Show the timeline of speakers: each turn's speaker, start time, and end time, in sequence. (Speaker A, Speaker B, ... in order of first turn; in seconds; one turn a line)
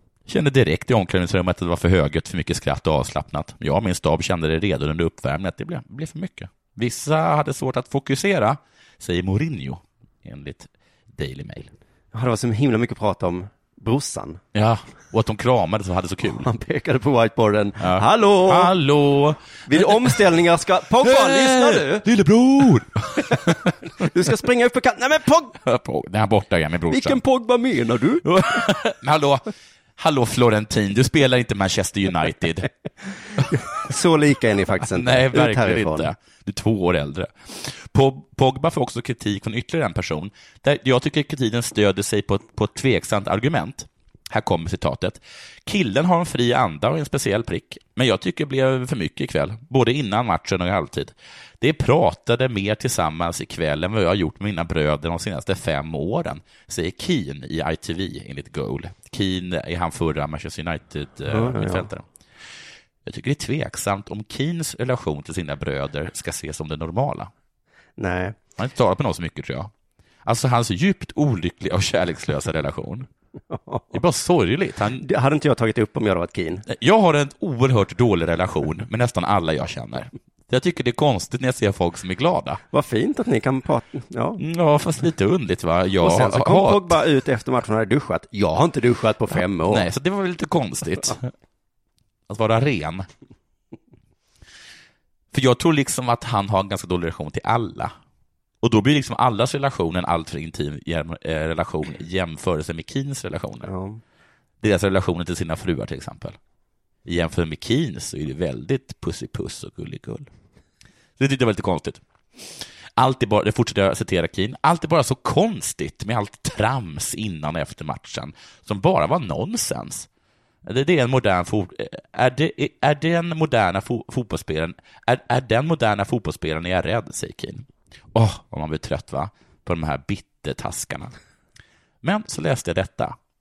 Speaker A: 0.3-11.7
Speaker B: 12.1-14.4
Speaker A: 14.5-16.5
Speaker B: 16.4-18.7
Speaker A: 17.8-20.2
Speaker B: 19.7-22.1
Speaker A: 21.0-23.8
Speaker B: 23.2-25.6
Speaker A: 25.6-27.2
Speaker B: 26.9-28.3
Speaker A: 28.2-32.7
Speaker B: 33.5-36.1
Speaker A: 34.9-62.0
Speaker B: 61.3-61.9
Speaker A: 63.0-67.3
Speaker B: 68.0-68.4
Speaker A: 68.6-69.7
Speaker A: 70.2-73.1
Speaker B: 73.5-74.0
Speaker A: 73.9-75.0
Speaker B: 75.0-76.6
Speaker A: 76.7-82.6
Speaker B: 82.7-84.4
Speaker A: 84.4-86.9
Speaker B: 86.0-89.9
Speaker A: 89.7-91.3
Speaker A: 92.3-93.0
Speaker A: 95.3-97.9
Speaker A: 98.6-103.7
Speaker B: 103.6-104.0
Speaker A: 104.6-106.3
Speaker A: 107.0-110.3
Speaker A: 111.2-120.1
Speaker A: 120.6-131.1
Speaker A: 132.0-133.1